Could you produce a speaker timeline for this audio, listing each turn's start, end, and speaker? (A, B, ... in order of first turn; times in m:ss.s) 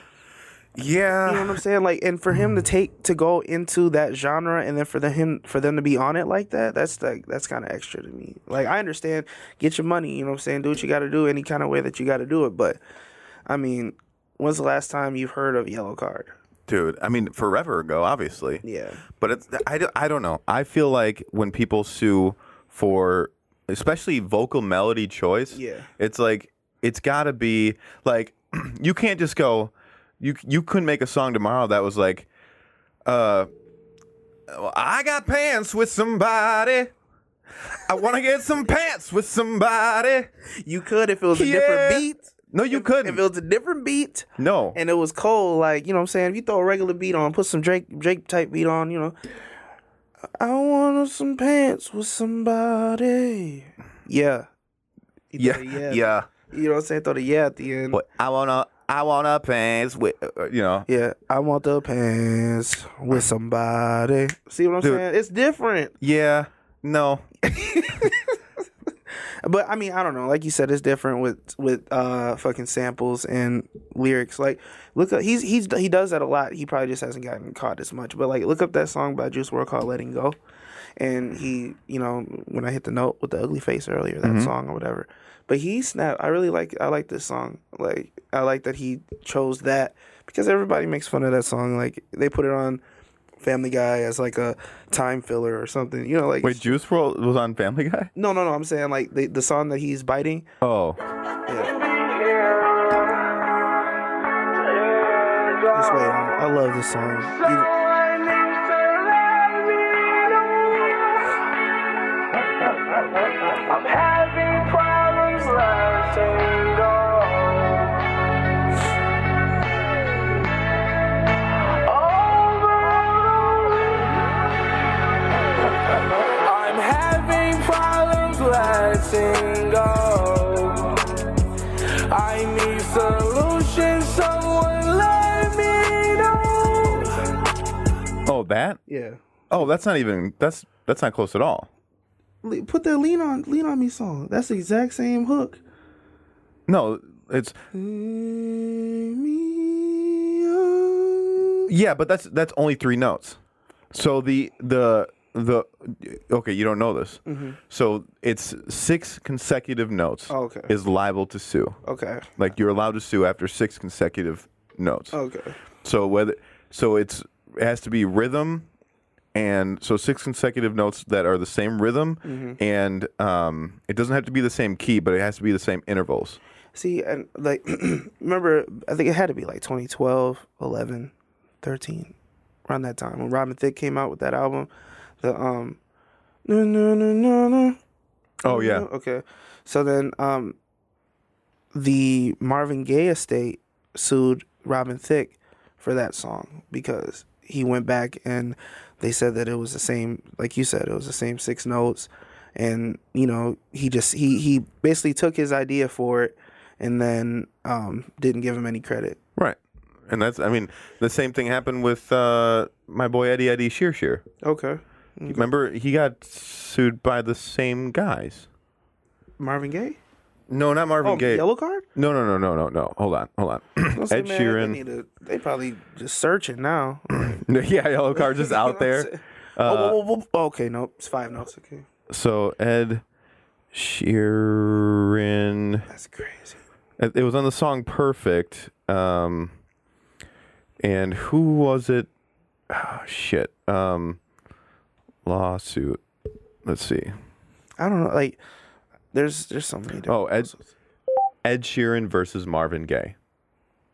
0:00.7-0:01.6 A
0:01.2-0:12.8 B
0:13.5-0:16.4 B
0:16.7-0:18.6 A
0:18.6-0:19.0 B
0:19.2-0:32.3 A
0:25.5-0:25.9 B
0:33.0-0:33.5 A
0:34.5-0:36.9 A
0:37.7-0:40.3 A
0:40.6-0:49.2 B
0:41.3-0:43.2 A
0:44.4-0:44.8 A
0:50.4-0:54.5 B
0:55.3-0:58.0 B
0:55.4-0:56.3 A
0:57.9-1:00.9 A
1:00.9-1:05.9 B
1:06.0-1:07.2 A
1:07.4-1:08.3 B
1:09.1-1:20.4 B
1:21.0-1:32.8 B
1:24.2-1:24.5 A
1:33.4-1:36.7 B
1:36.4-1:38.1 A
1:38.2-1:40.5 B
1:40.6-1:41.0 A
1:41.5-1:41.7 B
1:41.5-1:43.4 C
1:44.5-1:46.4 C
1:45.7-1:47.7 B
1:47.2-1:51.4 C
1:52.9-1:58.0 C
2:01.8-2:04.1 C
2:05.9-2:11.0 C
2:12.1-2:17.4 C
2:18.2-2:18.8 A
2:18.9-2:19.7 B
2:19.5-2:21.7 A
2:22.4-2:25.6 B
2:26.7-2:27.6 A
2:27.7-2:31.7 B
2:31.7-2:33.4 A
2:33.9-2:41.8 A
2:37.2-2:37.6 B
2:40.3-2:40.7 B
2:41.8-2:42.3 B
2:42.4-2:45.2 A
2:45.1-2:45.6 B
2:45.8-2:48.7 A
2:49.3-2:56.4 A
2:52.2-2:52.6 B
2:56.7-3:02.1 B
3:02.7-3:04.7 B
3:05.2-3:05.8 B
3:06.4-3:07.8 B
3:08.4-3:08.9 A
3:08.4-3:10.6 B
3:11.7-3:29.2 B
3:29.4-3:34.2 A
3:34.4-3:35.4 B
3:35.3-3:38.5 A
3:39.4-3:40.0 B
3:40.5-3:44.8 A
3:41.0-3:41.8 B
3:43.9-3:47.4 B
3:47.1-3:50.0 A
3:48.1-3:51.8 B
3:52.1-3:53.0 A
3:53.7-3:55.9 A
3:55.9-3:56.6 B
3:57.0-3:59.5 A
4:00.8-4:02.1 A
4:02.7-4:04.2 A
4:05.2-4:06.0 A
4:06.6-4:07.1 A
4:07.8-4:08.4 B
4:09.1-4:10.6 B
4:10.1-4:10.5 A
4:11.4-4:13.1 A